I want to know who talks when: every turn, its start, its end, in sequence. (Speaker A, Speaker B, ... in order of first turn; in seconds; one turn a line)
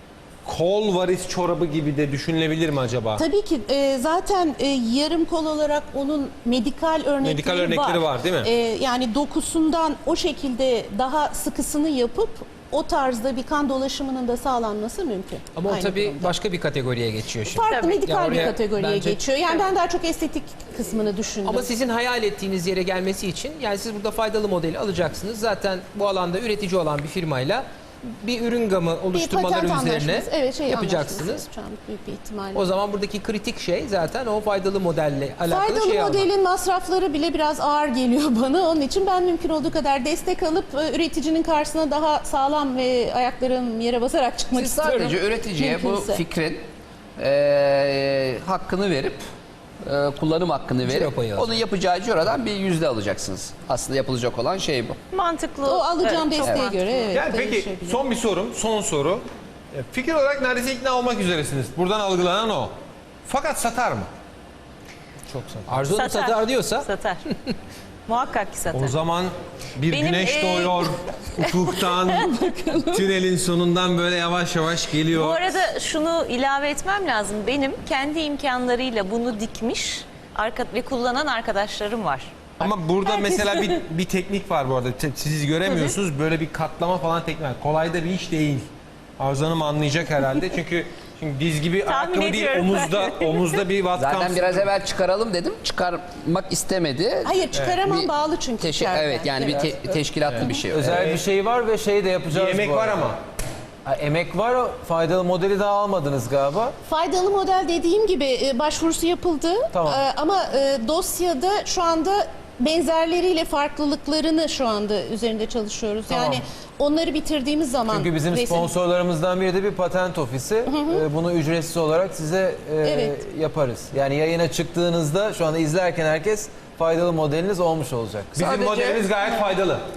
Speaker A: 0.5-3.3
Speaker B: 3.2-16.4
Speaker A: 7.2-8.5
Speaker C: 15.5-19.5
Speaker B: 17.5-21.7
Speaker C: 21.4-31.5
Speaker B: 29.1-32.7
Speaker C: 32.5-36.3
Speaker B: 35.5-46.2
Speaker D: 44.5-46.6
Speaker C: 44.9-45.1
Speaker D: 47.2-49.2
Speaker D: 49.8-55.0
Speaker C: 50.9-51.6
Speaker E: 55.1-57.1
Speaker B: 55.6-58.0
Speaker D: 56.4-56.7
Speaker A: 57.1-62.7
Speaker A: 63.2-64.1
Speaker A: 65.3-65.8
Speaker C: 65.7-66.9
Speaker E: 65.9-67.2
Speaker E: 68.1-68.9
Speaker A: 68.7-75.5
Speaker E: 69.9-72.4
Speaker B: 72.4-72.8
Speaker E: 75.1-82.3
Speaker A: 82.6-88.7
Speaker E: 85.7-85.9
Speaker A: 89.2-94.7
Speaker E: 91.8-93.5
Speaker D: 94.0-100.9
Speaker B: 97.2-99.7
Speaker A: 100.3-101.2
Speaker F: 100.6-103.1
Speaker A: 102.3-103.2
Speaker F: 103.8-106.8
Speaker B: 106.8-118.7
Speaker F: 109.7-110.0
Speaker F: 116.1-116.4
Speaker F: 117.9-128.4
Speaker B: 120.7-121.0
Speaker B: 122.8-123.2
Speaker A: 128.4-129.8
Speaker D: 128.4-129.1